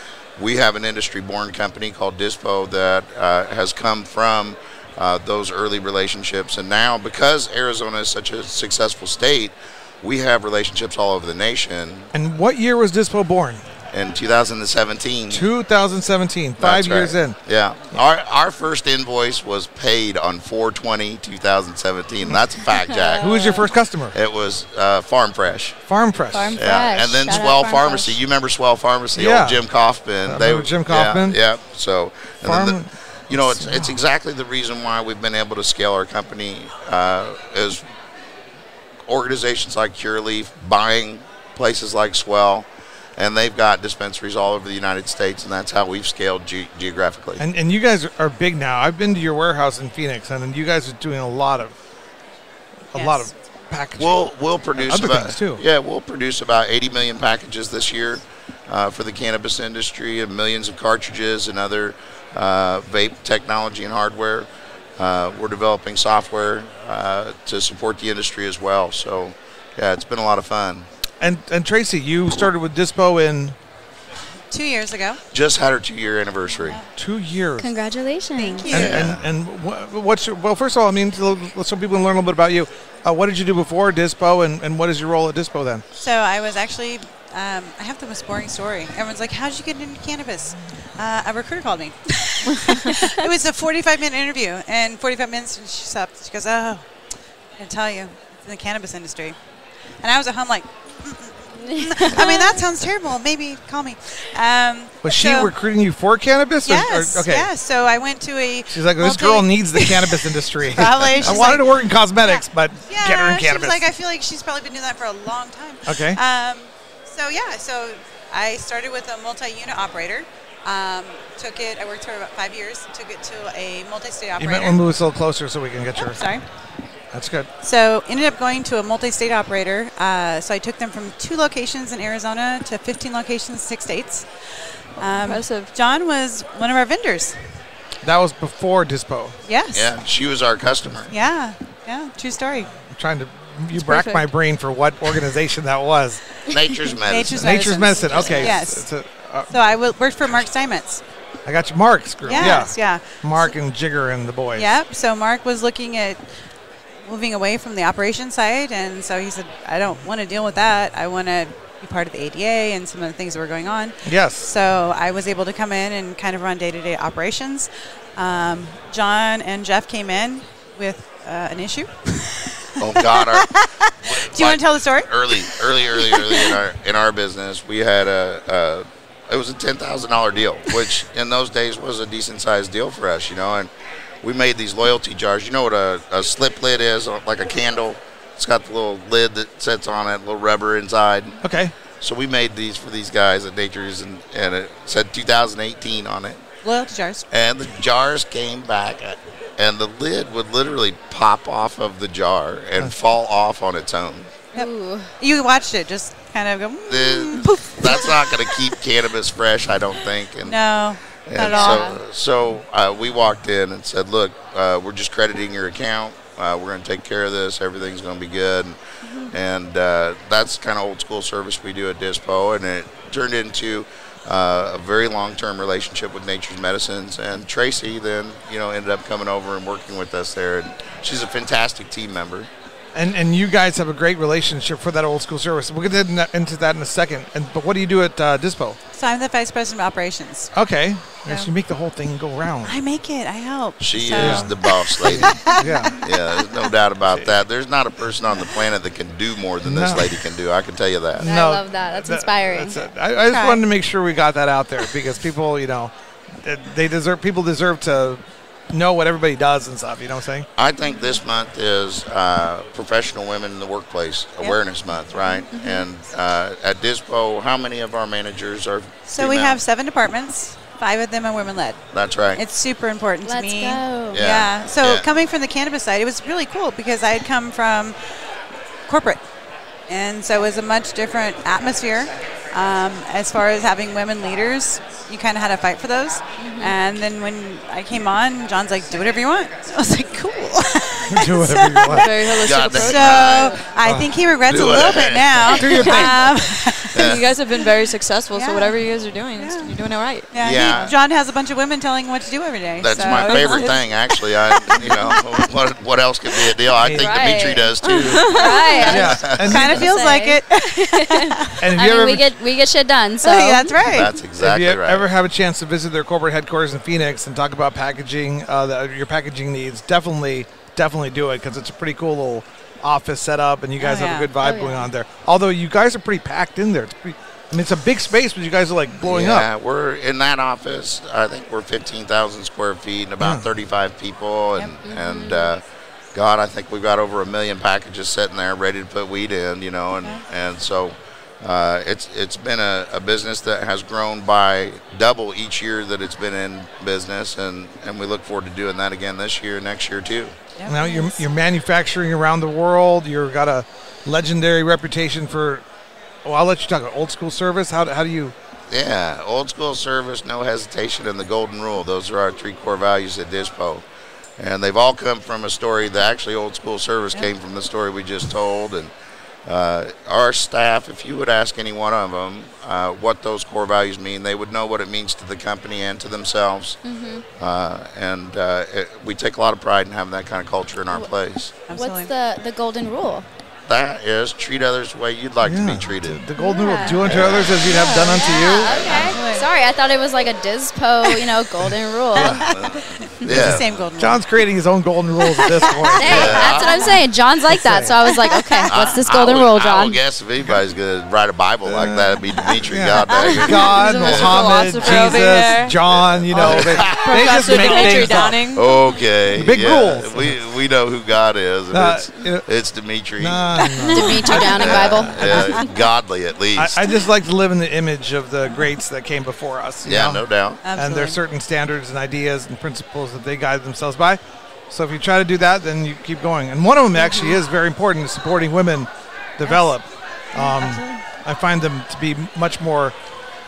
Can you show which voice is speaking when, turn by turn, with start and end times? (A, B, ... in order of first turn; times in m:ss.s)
0:00.4-0:12.1 A
0:12.1-0:13.6 B
0:13.9-0:15.5 A
0:15.3-0:17.4 B
0:16.6-0:23.5 A
0:22.9-0:23.7 C
0:23.2-0:24.1 B
0:24.1-0:25.8 A
0:25.9-0:26.6 B
0:26.3-0:28.1 C
0:26.6-0:37.8 A
0:29.2-0:29.6 B
0:30.3-0:31.4 B
0:32.4-0:34.0 B
0:39.1-0:47.4 A
0:47.4-0:51.7 B
0:52.9-0:55.6 B
0:52.9-0:53.3 D
0:54.0-1:10.9 A
1:11.2-1:13.6 B
1:14.5-1:15.2 D
1:15.3-1:16.8 A
1:17.0-1:17.7 B
1:17.6-1:18.8 C
1:18.4-1:19.0 D
1:18.7-1:19.2 A
1:18.7-1:25.8 B
1:26.0-1:36.8 D
1:37.6-1:39.4 D
1:40.0-1:45.5 D
1:41.6-1:42.6 C
1:45.0-1:47.5 B
1:46.6-2:04.8 D
1:48.7-1:53.8 B
1:55.8-1:56.2 B
2:04.4-2:06.2 B
2:06.0-2:06.4 D
2:07.1-2:07.5 B
2:07.6-2:14.3 D
2:15.0-2:17.4 D
2:15.0-2:15.7 E
2:18.0-2:19.4 B
2:19.5-2:19.9 D
2:19.7-2:21.1 A
2:21.1-2:22.7 D
2:22.9-2:26.2 B
2:23.8-2:24.3 E
2:26.5-2:28.6 A
2:26.9-2:28.8 D
2:27.3-2:29.6 B
2:29.5-2:31.0 D
2:31.5-2:34.7 B
2:32.2-2:33.5 D
2:34.5-2:36.2 D
2:37.0-2:56.6 D
2:44.0-2:44.5 B
2:52.8-2:53.5 A
2:54.0-3:03.7 A
3:04.2-3:11.4 A
3:11.4-3:11.7 B
3:12.0-3:16.4 A
3:16.6-3:17.3 D
3:17.3-3:24.3 A
3:24.5-3:25.1 C
3:24.5-3:28.7 D
3:26.9-3:30.6 A
3:30.4-3:31.9 D
3:31.2-3:52.5 A
3:31.4-3:32.0 C
3:52.9-3:58.8 B
3:58.9-4:00.5 D
4:00.5-4:02.8 B
4:02.6-4:06.6 D
4:03.8-4:05.4 A
4:04.2-4:06.0 B
4:06.0-4:11.3 A
4:09.6-4:10.1 B
4:11.2-4:12.9 C
4:11.2-4:20.5 B
4:13.2-4:13.6 D
4:20.6-4:29.6 A
4:25.4-4:25.8 C
4:29.1-4:31.8 D
4:31.9-4:32.4 A
4:32.4-4:38.0 D
4:33.2-4:34.2 C
4:34.1-4:35.1 A
4:38.9-4:39.2 D
4:39.9-4:57.2 D
4:46.4-4:46.8 C
4:51.1-4:52.1 B
4:51.9-4:53.6 E
4:52.4-4:53.6 A
4:53.8-4:54.1 B
4:54.4-4:56.1 A
4:55.4-4:56.6 B
4:56.9-5:00.3 E
4:56.9-4:57.3 A
4:58.3-4:58.8 D
4:59.4-4:59.7 D
5:00.3-5:03.8 D
5:00.4-5:00.9 A
5:02.8-5:09.8 A
5:03.0-5:03.7 E
5:04.7-5:05.2 C
5:06.8-5:07.4 B
5:07.0-5:13.9 C
5:07.8-5:09.0 E
5:08.8-5:09.9 B
5:09.4-5:11.6 D
5:11.6-5:12.3 B
5:13.2-5:14.1 D
5:13.9-5:15.1 A
5:14.4-5:29.5 B
5:23.8-5:24.3 D
5:24.4-5:24.9 C
5:29.0-5:35.6 A
5:33.2-5:33.5 B
5:34.6-5:35.5 C
5:36.1-5:50.4 A
5:50.6-5:51.2 D
5:50.6-5:55.6 B
5:56.2-5:58.4 B
5:58.7-6:03.8 A
6:04.4-6:08.9 A
6:09.4-6:16.8 A
6:16.8-6:17.2 C
6:17.4-6:21.6 A
6:21.7-6:22.1 D
6:21.7-6:23.2 C
6:23.7-6:26.2 A
6:25.4-6:28.8 B
6:26.4-6:32.5 C
6:27.0-6:27.7 A
6:28.6-6:29.5 D
6:28.6-6:29.2 A
6:32.1-6:33.8 A
6:32.2-6:32.4 B
6:32.2-6:34.2 D
6:33.2-6:36.6 B
6:35.3-6:37.0 D
6:36.0-6:40.0 C
6:36.0-6:37.0 A
6:37.5-6:38.1 B
6:38.2-6:38.7 D
6:38.6-6:44.5 A
6:41.6-6:48.4 B
6:43.7-6:44.2 C
6:43.9-6:45.8 E
6:45.9-6:47.2 A
6:46.4-6:48.7 E
6:48.5-6:53.6 A
6:49.3-6:50.4 B
6:51.7-6:52.5 B
6:53.2-6:55.6 B
6:53.9-6:55.6 C
6:54.0-6:54.3 D
6:54.4-6:56.9 A
6:56.6-7:00.2 B
6:59.8-7:00.6 A
7:00.6-7:01.2 D
7:00.7-7:13.0 B
7:07.0-7:07.4 C
7:10.4-7:11.0 D